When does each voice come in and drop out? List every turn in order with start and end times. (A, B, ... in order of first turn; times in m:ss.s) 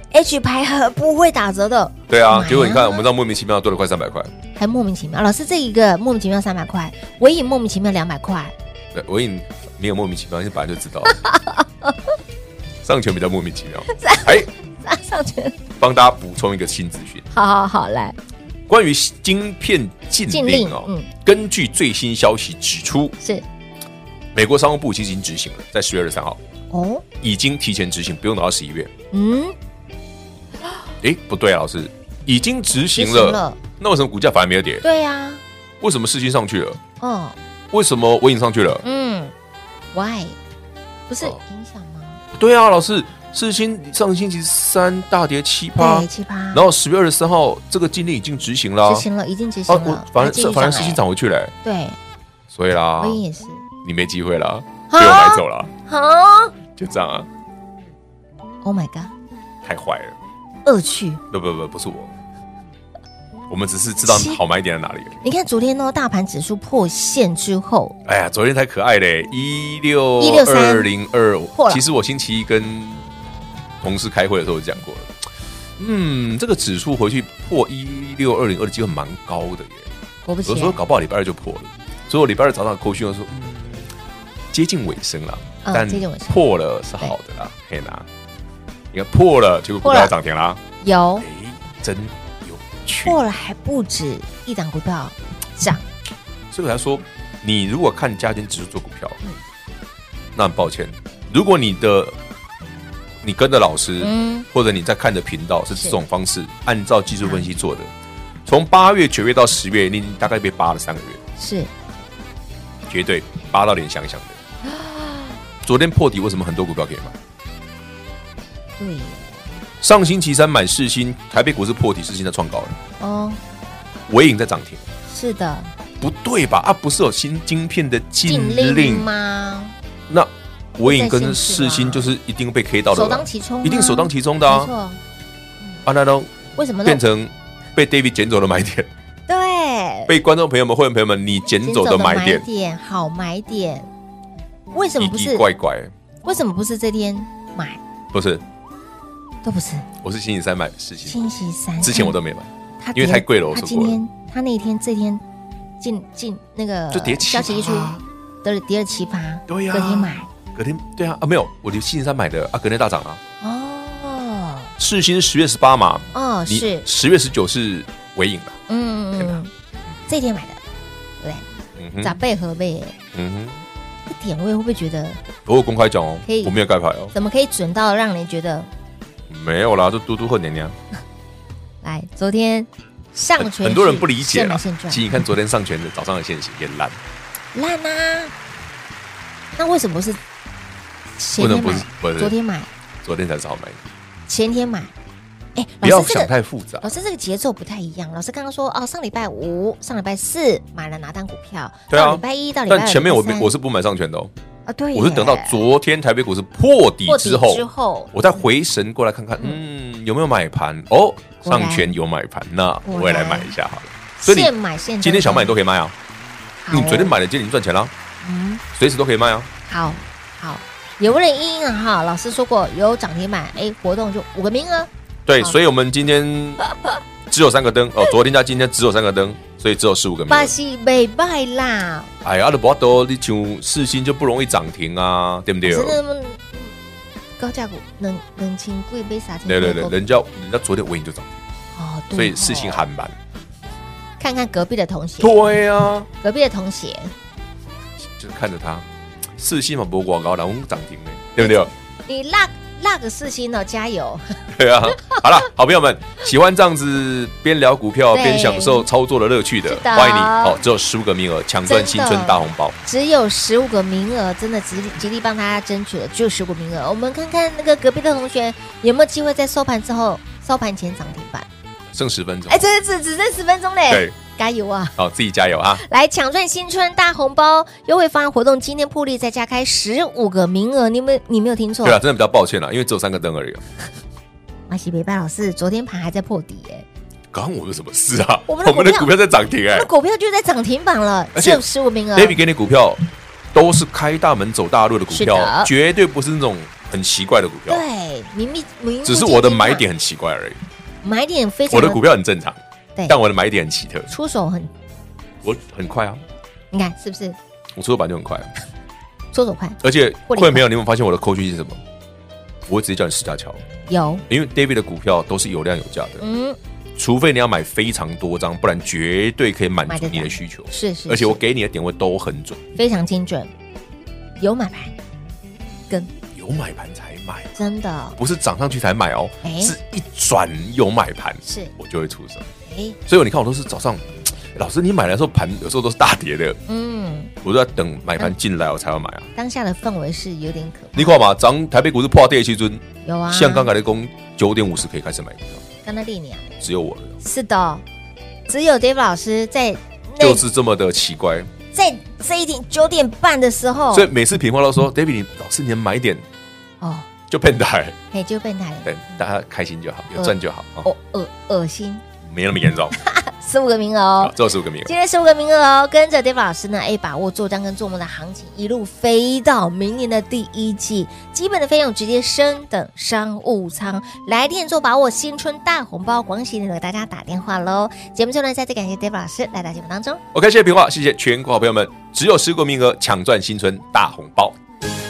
0:00.1-0:03.0 A
0:02.1-0:04.3 B
0:04.5-0:08.5 A
0:08.9-0:11.2 B
0:11.1-0:12.0 A
0:12.8-0:14.5 B
0:13.9-0:15.6 A
0:15.8-0:17.2 B
0:17.3-0:18.2 A
0:18.7-0:23.2 B
0:20.3-0:21.1 A
0:24.3-0:26.4 B
0:26.7-0:27.0 A
0:27.2-0:28.9 B
0:29.1-0:29.6 A
0:31.0-0:34.8 B
0:32.9-0:33.6 A
0:34.8-0:35.4 A
0:35.8-0:36.8 B
0:37.0-0:37.4 A
0:37.7-0:38.8 B
0:38.8-0:39.3 A
0:39.9-0:40.4 A
0:41.1-0:42.2 A
0:42.4-0:49.1 B
0:45.8-0:46.6 A
0:48.8-0:51.0 A
0:49.7-0:51.5 B
0:51.6-0:52.0 A
0:52.5-0:53.2 B
0:53.0-0:53.6 A
0:53.8-0:55.7 B
0:54.9-0:56.5 A
0:56.8-0:57.3 B
0:58.6-0:59.1 A
0:59.6-1:00.2 B
1:00.6-1:01.2 A
1:01.3-1:02.1 B
1:03.5-1:05.2 B
1:04.0-1:04.4 A
1:05.2-1:08.0 A
1:08.0-1:13.0 B
1:10.2-1:10.9 A
1:11.5-1:11.8 A
1:13.8-1:19.9 B
1:20.2-1:20.8 A
1:20.4-1:23.9 B
1:24.5-1:28.1 B
1:25.6-1:26.4 A
1:28.9-1:30.6 B
1:29.8-1:30.1 A
1:30.8-1:31.2 A
1:31.2-1:33.2 B
1:33.0-1:35.8 A
1:36.5-1:39.2 B
1:40.3-1:42.2 B
1:43.2-1:47.9 B
1:44.0-1:44.4 A
1:45.7-1:46.0 A
1:48.4-1:51.2 B
1:51.4-1:51.7 A
1:52.9-1:54.4 B
1:54.6-1:55.4 A
1:55.6-1:57.2 B
1:58.8-1:59.4 A
1:59.8-2:02.8 B
2:03.0-2:03.4 A
2:04.1-2:04.9 B
2:05.1-2:05.7 A
2:06.0-2:09.1 B
2:08.2-2:09.7 A
2:10.1-2:14.7 B
2:10.8-2:12.1 A
2:12.9-2:15.0 A
2:15.8-2:16.3 B
2:16.5-2:17.0 A
2:16.8-2:18.9 B
2:19.3-2:20.1 A
2:20.1-2:22.4 B
2:21.6-2:23.9 A
2:24.7-2:25.4 A
2:25.0-2:25.9 B
2:26.2-2:27.8 A
2:28.1-2:28.4 B
2:29.4-2:29.9 A
2:30.0-2:34.0 B
2:31.0-2:32.2 A
2:32.8-2:35.2 A
2:35.8-2:40.3 A
2:36.9-2:38.0 B
2:39.5-2:43.2 B
2:43.4-2:44.7 A
2:44.8-2:48.6 B
2:46.1-2:46.8 A
2:48.7-2:49.5 A
2:50.1-2:50.6 A
2:51.2-2:51.5 A
2:51.8-2:52.2 B
2:52.0-2:52.9 A
2:53.1-2:53.6 B
2:54.1-2:55.2 A
2:55.4-2:57.1 B
2:56.2-2:56.5 A
2:57.1-2:58.7 A
2:59.3-3:00.8 B
3:01.8-3:05.1 A
3:03.4-3:07.0 B
3:07.5-3:08.3 A
3:09.6-3:10.2 A
3:11.2-3:12.7 A
3:11.4-3:12.3 B
3:13.0-3:13.8 B
3:14.3-3:14.9 A
3:15.6-3:23.5 A
3:15.8-3:16.9 B
3:21.9-3:24.3 B
3:24.7-3:25.6 A
3:24.9-3:35.9 B
3:27.1-3:28.1 A
3:31.4-3:31.9 A
3:32.8-3:33.5 A
3:34.2-3:35.6 A
3:36.6-3:37.1 A
3:36.7-3:37.9 B
3:38.2-3:38.6 A
3:38.7-3:39.5 B
3:39.7-3:45.5 A
3:45.2-3:46.6 B
3:46.7-3:47.0 A
3:47.3-3:50.5 B
3:50.3-3:52.1 A
3:52.2-3:56.0 B
3:55.6-3:56.7 A
3:57.4-4:00.0 A
3:59.5-4:01.3 B
4:01.8-4:02.8 A
4:02.1-4:03.2 B
4:04.2-4:05.4 A
4:05.2-4:06.1 B
4:06.2-4:07.1 A
4:08.0-4:08.8 B
4:09.4-4:11.7 B
4:11.4-4:14.4 A
4:14.5-4:22.8 B
4:18.1-4:18.9 A
4:19.7-4:20.6 A
4:21.6-4:31.5 A
4:31.9-4:32.6 B
4:32.5-4:35.0 A
4:33.9-4:34.1 B
4:35.0-4:35.8 B
4:35.7-4:42.0 A
4:41.8-4:43.6 B
4:44.7-4:46.8 A
4:47.3-4:49.9 B
4:48.5-4:49.1 A
4:49.7-4:52.4 A
4:51.3-4:51.6 B
4:52.1-4:57.8 B
4:55.1-4:55.7 A
4:57.7-4:59.9 A
4:59.0-5:00.6 B
5:01.0-5:02.0 A
5:01.7-5:04.1 B
5:04.1-5:04.7 A
5:05.4-5:06.2 B
5:06.7-5:07.4 A
5:07.7-5:08.5 B
5:09.3-5:10.6 A
5:09.8-5:11.8 B
5:12.7-5:13.6 B
5:13.9-5:14.2 A
5:14.3-5:16.2 B
5:16.2-5:16.6 A
5:17.0-5:22.6 B
5:19.9-5:21.4 A
5:22.8-5:23.5 A
5:24.4-5:24.9 A
5:26.3-5:27.6 B
5:27.6-5:28.2 A
5:28.2-5:32.4 B
5:29.4-5:29.7 A
5:31.4-5:31.7 A
5:32.7-5:33.0 A
5:33.0-5:36.6 B
5:36.7-5:37.3 A
5:37.4-5:39.3 B
5:39.4-5:41.2 A
5:40.9-5:45.6 B
5:43.0-5:43.7 A
5:45.8-5:46.6 A
5:46.6-5:47.2 B
5:47.2-5:47.8 A
5:48.5-5:50.4 A
5:50.2-5:51.5 B
5:51.7-5:54.1 A
5:53.9-5:56.2 B
5:56.8-5:57.1 A
5:57.3-5:58.0 B
5:58.1-5:58.9 A
5:58.8-6:00.9 B
6:00.1-6:02.0 A
6:02.2-6:02.9 B
6:02.9-6:04.3 A
6:04.2-6:04.9 B
6:04.8-6:20.2 A
6:20.3-6:24.6 B